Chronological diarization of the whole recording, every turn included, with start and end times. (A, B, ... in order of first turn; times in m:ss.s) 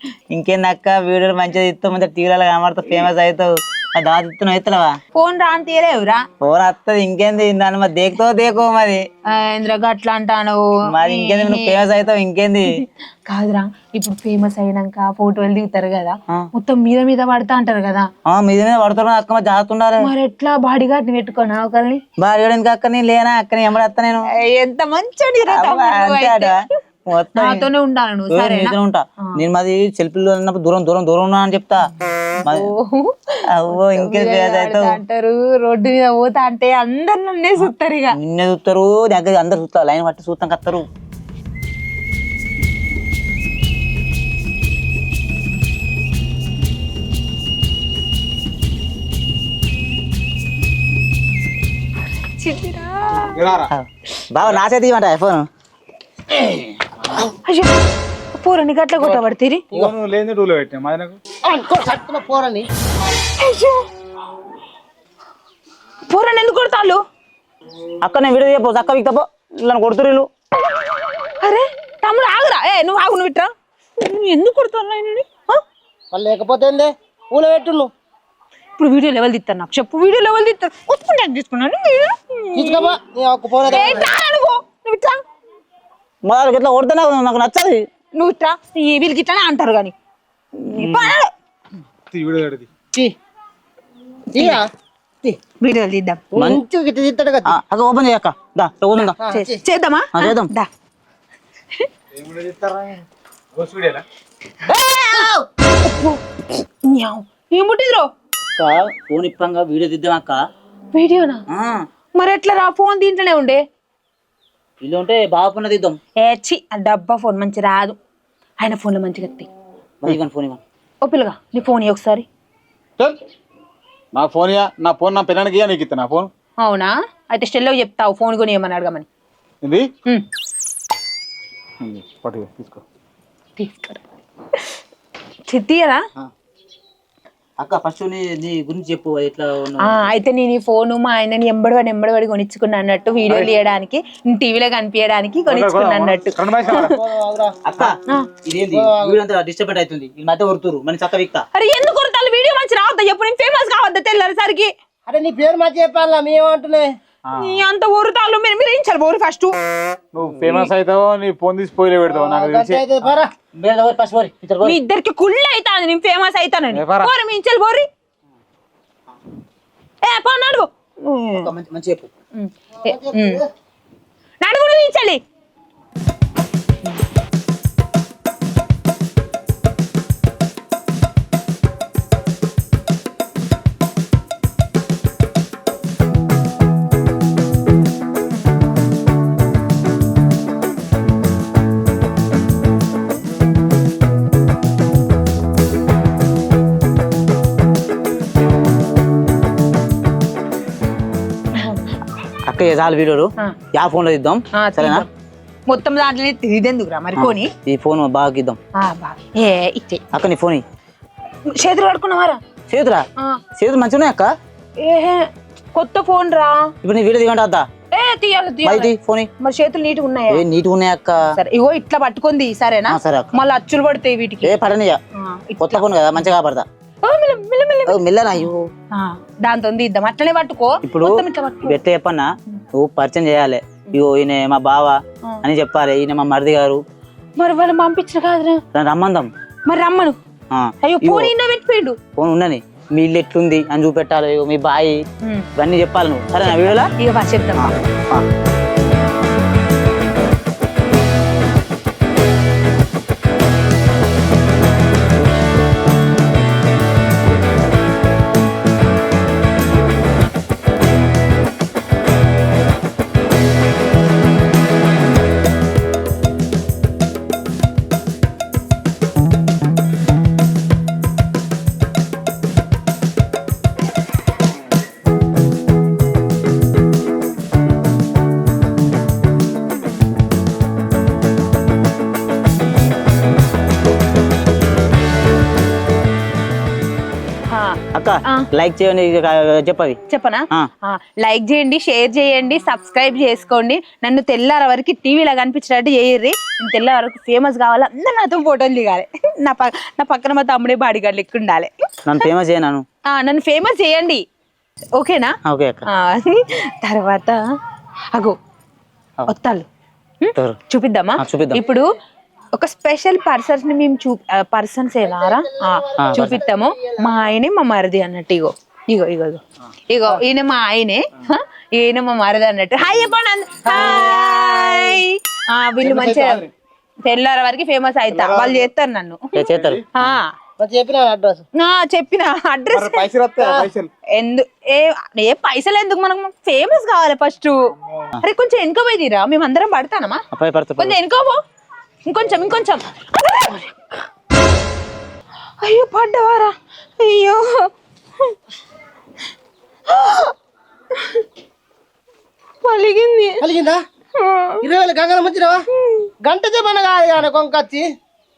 0:00.3-0:05.0 A
0:05.1-0:06.3 B
0:06.4-0:09.0 A
0:09.2-0:11.8 B
0:10.9-0:12.6 A
0:12.8-0:18.1 B
0:18.3-0:20.1 A
0:20.0-0:22.0 B
0:22.2-0:24.2 A
0:24.3-0:26.8 B
0:25.5-0:26.5 A
0:27.1-0:27.7 A
0:27.3-0:29.3 B
0:28.3-0:31.9 A
0:32.3-0:38.2 B
0:32.4-0:32.7 A
0:33.5-0:35.0 A
0:38.1-0:40.8 A
0:52.4-0:53.3 B
0:53.3-0:53.7 C
0:53.7-0:55.4 A
0:57.4-0:57.8 B
0:58.3-0:59.6 B
0:59.0-0:59.9 D
0:59.7-1:01.2 C
1:01.4-1:02.7 D
1:03.4-1:03.9 B
1:06.1-1:07.0 B
1:08.0-1:10.3 A
1:11.2-1:15.6 B
1:16.1-1:17.9 D
1:18.8-1:22.9 B
1:22.5-1:24.1 D
1:23.6-1:25.2 B
1:26.2-1:27.8 A
1:28.1-1:29.9 B
1:30.6-1:31.3 B
1:30.7-1:31.1 A
1:32.1-1:32.7 C
1:34.3-1:34.7 D
1:34.4-1:34.6 B
1:35.6-1:36.2 B
1:36.3-1:37.5 D
1:36.3-1:36.6 A
1:37.4-1:39.2 A
1:38.9-1:40.7 B
1:39.2-1:39.6 D
1:40.1-1:40.5 A
1:42.1-1:43.0 C
1:43.5-1:44.0 C
1:44.6-1:45.3 B
1:44.8-1:45.4 D
1:45.8-1:48.1 B
1:48.6-1:50.4 A
1:50.9-1:51.4 B
1:51.5-1:51.7 A
1:52.1-1:53.6 B
1:54.8-1:56.0 A
1:56.2-1:58.0 B
1:58.6-1:59.5 B
2:00.0-2:00.6 A
2:01.0-2:02.2 B
2:04.1-2:06.3 C
2:06.6-2:09.0 B
2:09.6-2:09.9 C
2:11.8-2:12.8 C
2:13.6-2:14.0 B
2:14.5-2:14.8 B
2:15.5-2:16.0 B
2:17.6-2:20.1 A
2:19.8-2:27.0 B
2:25.5-2:27.0 C
2:26.7-2:27.5 D
2:27.6-2:31.4 A
2:28.0-2:28.4 B
2:28.7-2:29.2 D
2:31.5-2:34.7 B
2:35.1-2:36.9 D
2:37.2-2:37.6 C
2:37.3-2:39.5 B
2:40.1-2:42.8 C
2:42.1-2:43.3 D
2:43.0-2:44.8 A
2:44.6-2:47.9 B
2:46.7-2:47.1 C
2:50.0-2:51.5 B
2:51.4-2:52.1 A
2:52.3-2:53.4 B
2:52.8-2:53.4 D
2:54.4-2:55.2 B
3:21.5-3:22.0 B
3:22.5-3:25.0 A
3:23.4-3:23.6 B
3:24.5-3:25.1 B
3:25.7-3:27.5 B
3:27.1-3:28.6 A
3:28.7-3:30.1 B
3:30.1-3:30.6 A
3:31.5-3:32.4 B
3:32.7-3:33.0 A
3:33.2-3:33.4 B
3:33.6-3:34.3 A
3:34.8-3:36.7 B
3:36.8-3:37.7 A
3:37.9-3:40.4 B
3:38.6-3:39.3 A
3:40.3-3:41.2 A
3:41.4-3:44.6 B
3:42.9-3:43.4 A
3:44.4-3:45.0 A
3:45.1-3:45.8 B
3:45.6-3:46.6 A
3:47.0-3:51.8 B
3:47.8-3:48.6 A
3:50.8-3:56.8 A
3:57.4-3:58.6 B
3:58.7-3:59.3 A
3:59.7-4:00.2 B
4:00.5-4:01.3 A
4:00.8-4:02.1 B
4:02.1-4:05.0 A
4:05.2-4:05.5 B
4:05.6-4:06.9 A
4:07.0-4:07.7 B
4:07.5-4:08.2 A
4:47.5-4:48.5 B
4:47.9-4:50.0 A
4:50.0-5:02.2 B
5:02.0-5:02.8 A
5:03.0-5:04.2 B
5:05.0-5:05.4 B
5:05.4-5:05.8 A
5:05.9-5:07.4 B
5:09.3-5:09.7 B
5:10.2-5:11.9 B
5:11.2-5:11.7 A
5:12.5-5:26.4 B
5:15.0-5:17.1 D
5:16.0-5:16.4 A
5:25.8-5:26.5 C
5:27.0-5:29.3 B
5:28.2-5:28.7 C
5:29.3-5:30.1 A
5:29.5-5:29.8 C
5:30.0-5:30.3 B
5:30.6-5:31.4 D
5:31.6-5:33.1 B
5:32.7-5:33.9 C
5:33.4-5:33.7 D
5:34.1-5:37.6 B
5:37.7-5:38.1 C
5:38.2-5:40.2 B
5:40.3-5:41.0 A
5:40.8-5:41.4 B
5:42.0-5:44.0 B
5:45.6-5:47.7 B
5:49.9-5:50.3 B
5:50.9-5:51.2 B
5:52.6-5:53.4 B
5:53.4-5:53.8 D
5:54.2-5:54.7 B
5:54.6-5:55.6 D
5:55.8-5:56.1 B
5:56.2-5:57.9 D